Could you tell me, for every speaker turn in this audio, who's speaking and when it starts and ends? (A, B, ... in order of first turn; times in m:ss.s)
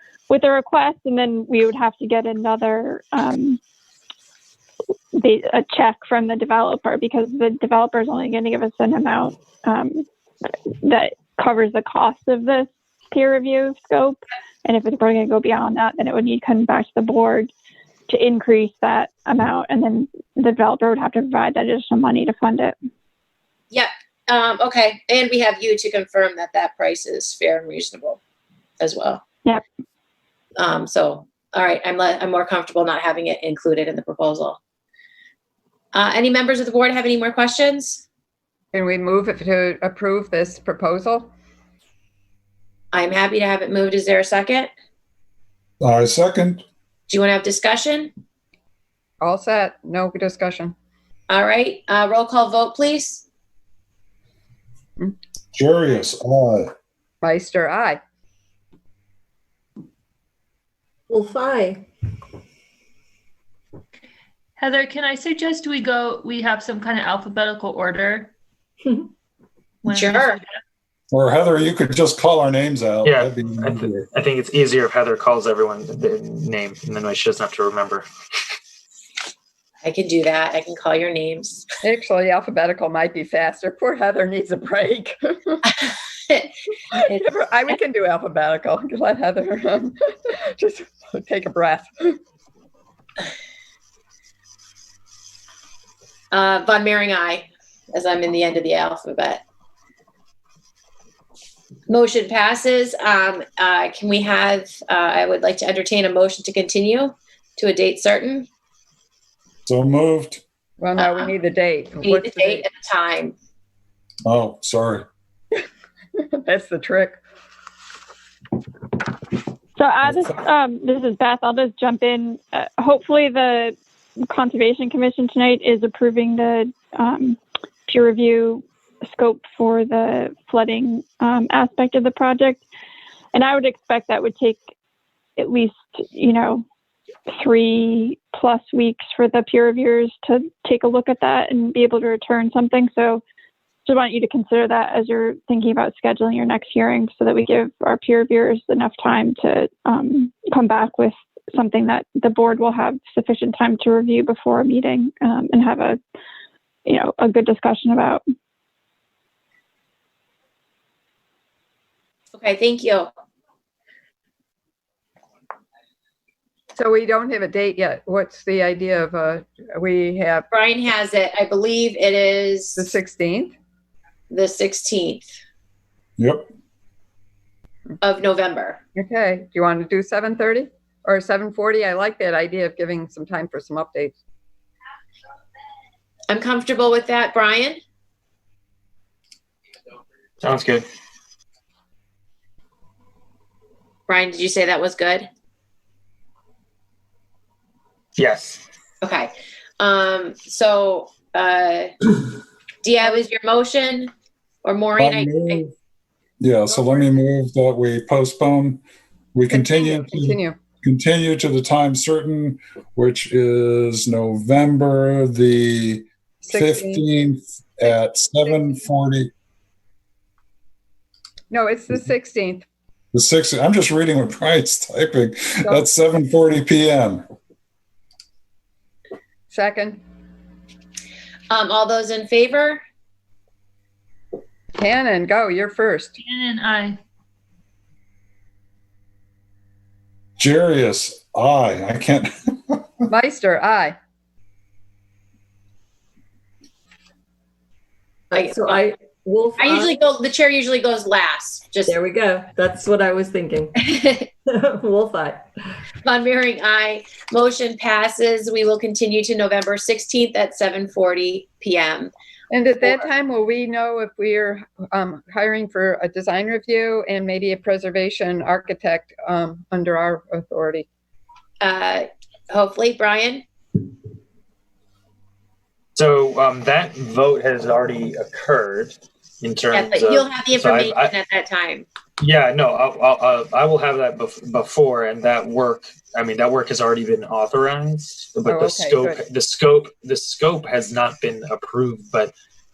0:00.3-0:03.6 A
0:05.2-0:10.1 A
0:10.8-0:17.5 A
0:18.1-0:22.8 A
0:23.7-0:28.2 B
0:28.8-0:29.2 B
0:30.6-0:34.6 B
0:35.9-0:38.0 B
0:38.7-0:41.3 C
0:42.9-0:44.7 B
0:45.8-0:46.6 D
0:47.1-0:48.1 B
0:49.2-0:50.8 C
0:51.3-0:53.3 B
0:55.5-0:56.7 D
0:57.2-0:58.0 C
1:01.1-1:01.8 E
1:04.6-1:08.3 F
1:09.8-1:10.5 F
1:09.9-1:10.4 B
1:11.1-1:14.1 D
1:13.0-1:18.1 G
1:19.8-1:21.7 B
1:21.8-1:25.6 C
1:25.9-1:26.5 B
1:27.0-1:32.2 C
1:36.3-1:39.4 B
1:41.9-1:48.5 B
1:49.7-1:50.4 D
1:50.8-1:52.7 C
1:51.0-1:51.3 B
1:52.0-1:53.4 B
1:54.2-1:55.1 D
1:56.3-1:57.2 C
1:59.8-2:03.8 A
2:04.3-2:12.6 A
2:13.3-2:14.6 A
2:15.4-2:16.6 A
2:17.3-2:23.2 A
2:23.9-2:36.0 A
2:36.9-2:38.2 A
2:42.3-2:43.1 B
2:46.8-2:50.5 C
2:50.5-2:52.9 B
2:52.8-2:53.6 C
2:54.3-2:55.3 B
2:56.2-2:56.5 D
2:58.0-2:58.8 B
2:59.0-3:04.2 C
3:06.3-3:07.8 B
3:10.4-3:10.9 G
3:14.1-3:15.3 B
3:18.2-3:18.6 G
3:19.0-3:21.9 B
3:22.8-3:24.1 B
3:24.6-3:25.6 B
3:25.0-3:25.7 D
3:26.4-3:28.8 D
3:26.7-3:27.0 C
3:29.3-3:39.3 D
3:29.5-3:30.6 C
3:36.4-3:37.0 C
3:41.5-3:42.6 C
3:43.1-3:47.2 D
3:49.5-3:50.0 C
3:51.5-3:52.8 B
3:54.8-3:56.2 C
3:56.2-3:57.0 F
4:00.4-4:02.8 D
4:03.1-4:04.0 C
4:08.3-4:08.8 B
4:08.3-4:10.0 E
4:09.6-4:12.0 B
4:11.8-4:15.5 E
4:13.8-4:14.3 B
4:16.0-4:22.1 B
4:22.5-4:30.9 C
4:31.6-4:33.4 B
4:36.0-4:41.2 G
4:39.7-4:41.9 B
4:42.2-4:52.3 G
4:48.5-4:49.2 C